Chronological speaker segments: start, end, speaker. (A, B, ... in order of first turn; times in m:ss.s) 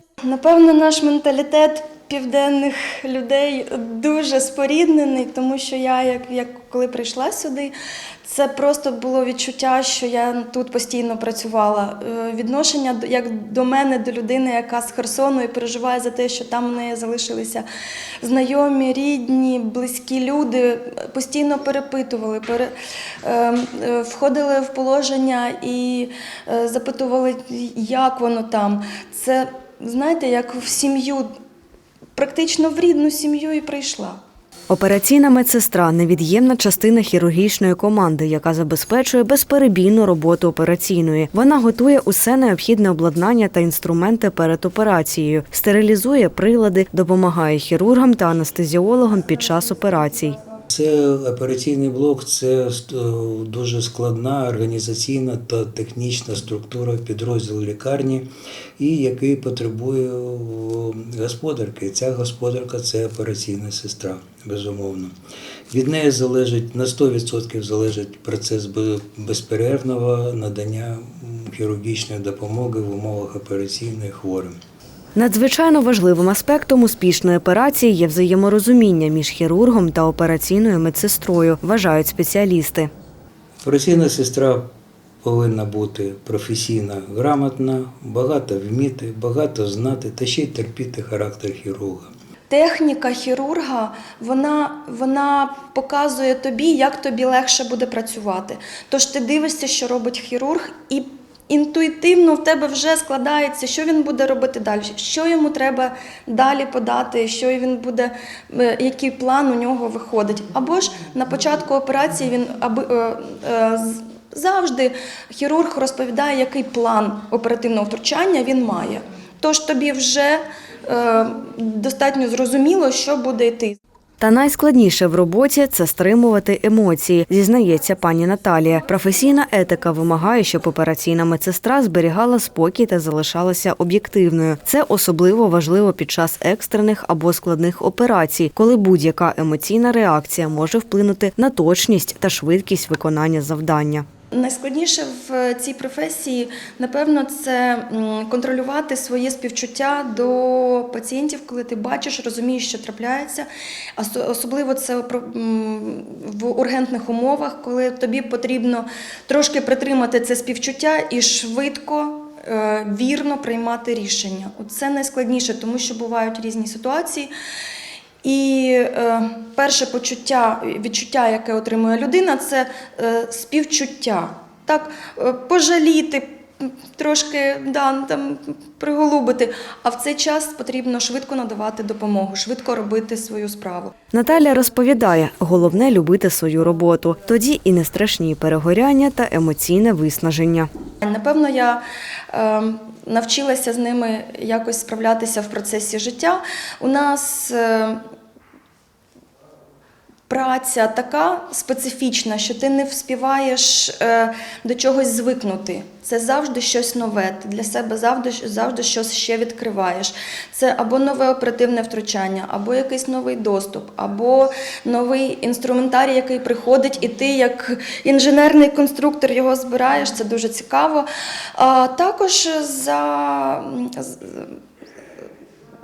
0:00.3-0:17.6 A
0:18.2-0:22.7 A
0:23.2-0:31.3 A
0:32.2-0:34.2 A
0:34.7-0:50.4 B
0:50.7-0:58.3 C
0:58.8-1:05.1 C
1:05.7-1:14.6 C
1:15.2-1:22.9 B
1:23.6-1:24.6 C
1:25.2-1:32.1 C
1:32.5-2:03.8 A
2:04.2-2:24.0 B
2:24.3-2:33.4 A
2:34.0-2:47.3 A
2:48.2-3:03.9 A
3:04.1-3:10.7 B
3:11.0-3:18.0 A
3:20.3-3:44.6 A